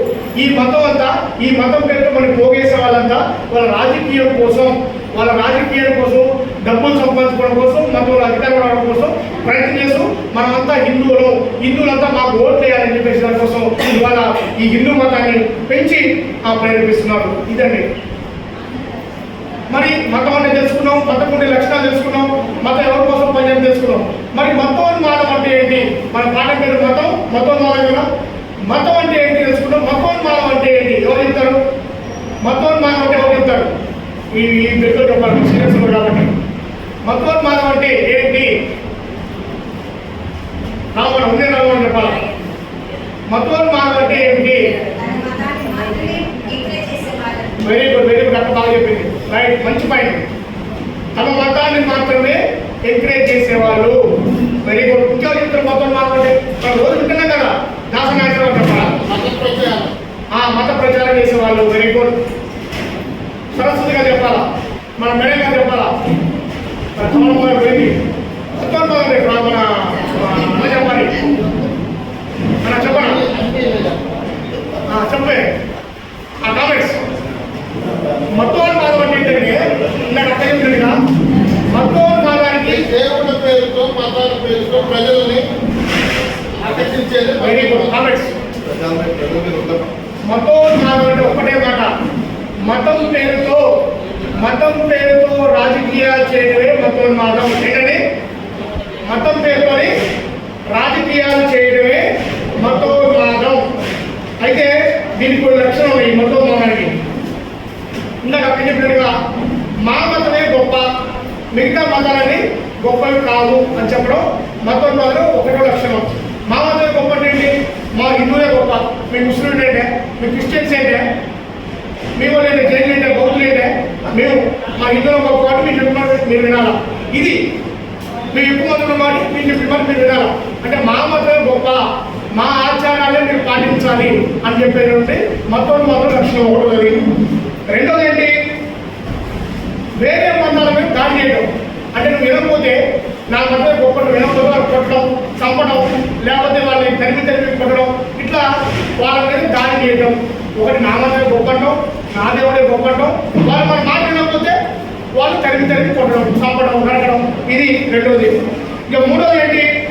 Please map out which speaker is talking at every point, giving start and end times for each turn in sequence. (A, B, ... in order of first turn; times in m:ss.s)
0:00.4-0:17.9 A
0:19.7-0:28.1 A
0:28.7-0:31.6 A
0:32.4-0:33.7 A
0:34.3-0:36.3 A
0:37.1-0:38.5 A
0:41.0-0:42.2 A
0:43.3-0:44.8 A
0:44.7-0:47.6 B
0:47.6-0:50.2 A
0:51.2-0:54.0 A
0:54.6-0:59.0 A
0:59.0-0:59.9 C
1:00.3-1:02.2 A
1:03.6-1:04.5 A
1:05.0-1:05.9 A
1:07.0-1:08.0 A
1:08.6-1:11.2 A
1:12.6-1:13.3 A
1:13.0-1:14.1 C
1:14.9-1:15.5 A
1:16.4-1:17.0 A
1:18.3-1:21.0 A
1:21.7-1:22.9 A
1:22.7-1:25.5 C
1:26.6-1:28.0 C
1:27.4-1:28.3 A
1:29.1-1:29.7 C
1:30.3-1:31.9 A
1:32.7-1:33.6 A
1:34.3-1:38.0 A
1:39.1-1:39.9 A
1:40.7-1:42.1 A
1:42.6-1:43.7 A
1:44.4-1:47.0 A
1:48.2-1:49.1 A
1:49.8-1:50.9 A
1:51.5-2:01.0 A
2:02.2-2:07.4 A
2:08.3-2:11.8 A
2:12.4-2:17.0 A
2:17.7-2:18.3 A
2:20.0-2:22.8 A
2:23.3-2:34.6 A
2:35.2-2:38.3 A
2:38.9-2:39.7 A